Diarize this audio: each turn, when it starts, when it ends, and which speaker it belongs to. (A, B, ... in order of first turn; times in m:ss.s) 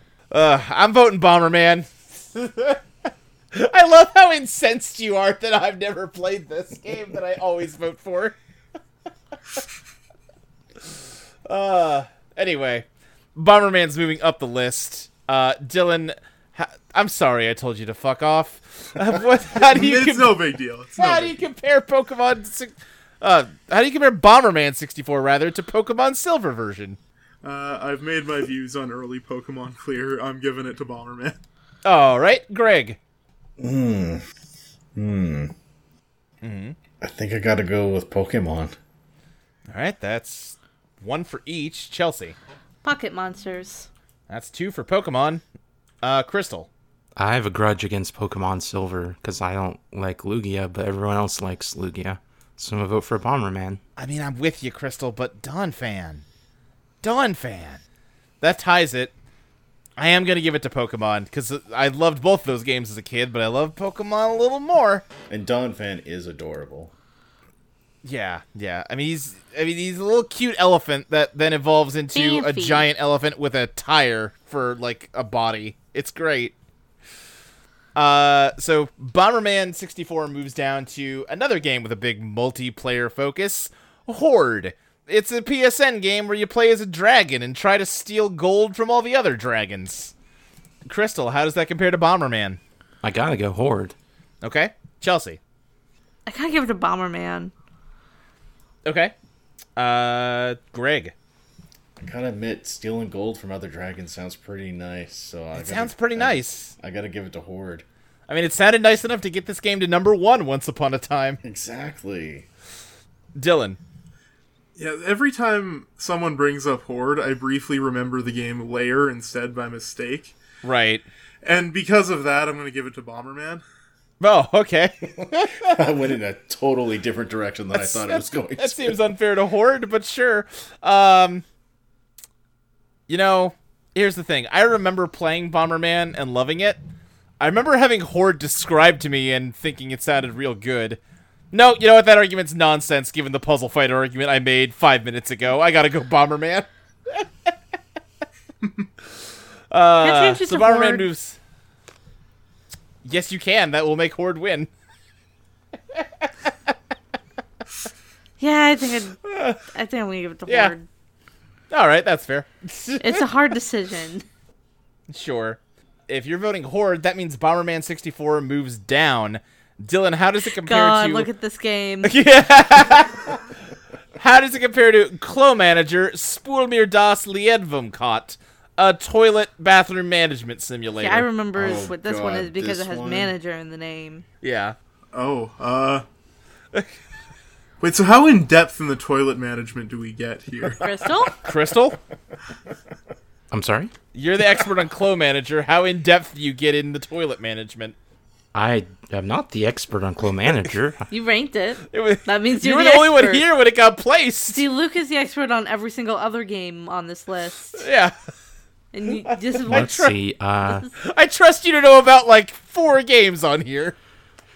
0:00.3-0:02.8 A
0:03.5-0:08.4 A
0:11.4-0:20.4 A
0:19.6-0:21.4 B
0:21.0-0:27.0 A
0:27.4-0:31.4 B
0:31.8-0:33.0 A
0:33.6-0:34.2 C
0:34.9-0:35.5 C
0:36.4-0:36.8 A
0:37.0-0:38.7 C
0:39.7-0:42.4 A
0:42.8-0:43.9 D
0:44.3-0:45.4 A
0:46.0-0:46.7 A
0:47.2-0:53.8 E
0:54.0-0:56.2 A
0:57.0-0:57.8 A
0:58.4-0:59.1 A
1:00.0-1:05.0 A
1:05.3-1:06.9 C
1:08.0-1:16.5 A
1:12.1-1:12.8 D
1:17.9-1:30.1 A
1:30.8-1:32.6 A
1:33.0-1:33.9 E
1:34.4-1:35.4 A
1:36.2-1:37.5 D
1:38.8-1:39.1 A
1:39.8-1:41.1 A
1:42.0-1:47.8 C
1:45.5-1:46.7 A
1:48.3-1:51.4 A
1:51.4-1:52.5 C
1:53.4-1:53.8 A
1:54.8-2:00.4 B
2:00.6-2:01.0 A
2:01.4-2:03.6 B
2:04.2-2:05.8 A
2:05.1-2:09.0 C
2:07.7-2:11.4 A
2:13.1-2:16.8 A
2:17.4-2:21.0 A
2:21.5-2:27.3 A
2:29.7-2:31.4 A
2:30.0-2:31.1 D
2:33.0-2:34.7 A
2:36.0-2:36.5 A
2:38.4-2:40.9 D
2:39.2-2:39.6 A
2:40.5-2:40.7 A
2:41.7-2:43.3 A
2:43.0-2:44.2 D
2:45.1-2:51.3 A
2:50.5-2:52.1 D
2:52.0-2:53.4 A
2:54.2-3:01.2 A
3:01.0-3:04.2 D
3:01.6-3:03.3 C
3:04.4-3:04.8 A
3:05.1-3:06.0 B
3:06.7-3:07.0 A
3:07.8-3:10.8 B
3:10.8-3:11.4 D
3:11.4-3:12.0 A
3:13.5-3:13.9 E
3:14.1-3:18.0 A
3:18.5-3:21.1 E
3:21.1-3:23.4 D
3:21.9-3:24.6 A
3:24.5-3:27.8 D
3:27.8-3:28.1 A
3:28.9-3:29.9 D
3:29.3-3:30.1 A
3:29.7-3:30.9 E
3:30.9-3:34.0 A